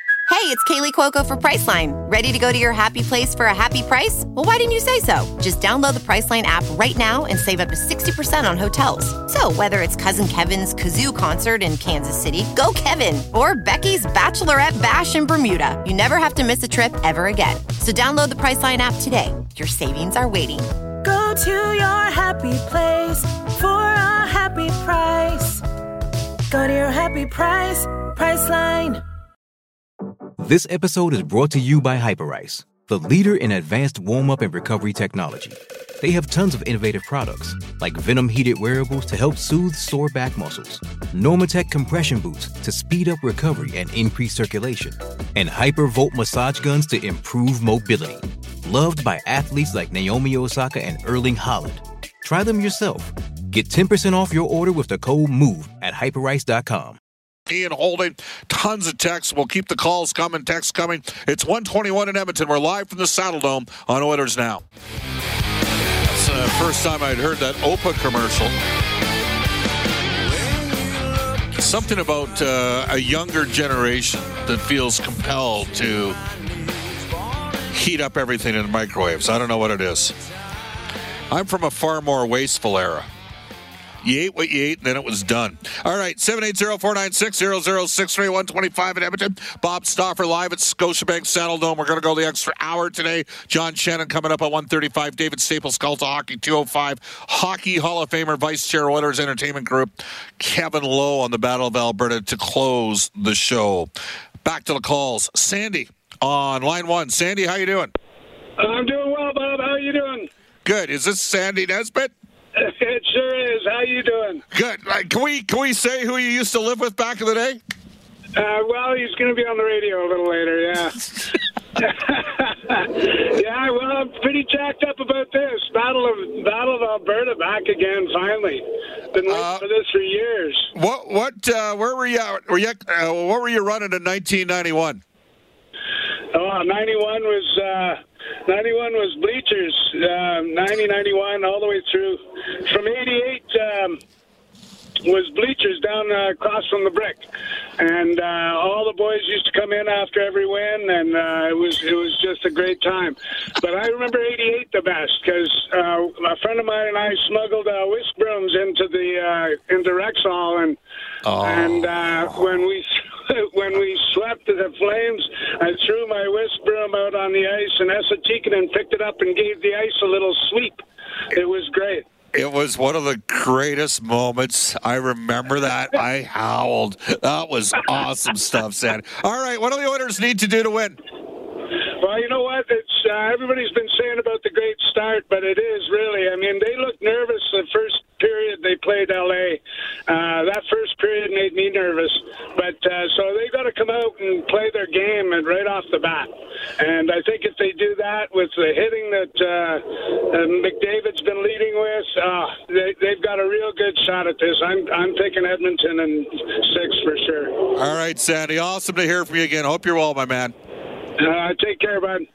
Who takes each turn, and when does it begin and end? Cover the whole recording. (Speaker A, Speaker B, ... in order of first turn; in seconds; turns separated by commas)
Speaker A: 0.3-20.6, Speaker B: 21.0-25.6, Speaker B: 26.5-29.0, Speaker C: 30.4-57.0, Speaker D: 57.5-64.6, Speaker D: 66.1-68.5, Speaker D: 71.5-76.2, Speaker D: 77.7-80.2, Speaker D: 81.3-83.1, Speaker D: 84.0-103.9, Speaker D: 104.4-107.9, Speaker E: 108.6-110.3, Speaker D: 110.6-112.1, Speaker E: 112.5-114.4, Speaker D: 114.5-117.6, Speaker E: 118.3-121.0, Speaker E: 121.8-130.7, Speaker D: 129.2-129.6, Speaker D: 130.7-135.0, Speaker E: 136.3-144.0, Speaker E: 145.0-147.3, Speaker E: 147.8-160.8, Speaker D: 161.2-161.9, Speaker E: 161.4-172.0, Speaker D: 172.3-181.0, Speaker E: 182.0-207.6, Speaker D: 207.7-210.5, Speaker E: 211.2-212.2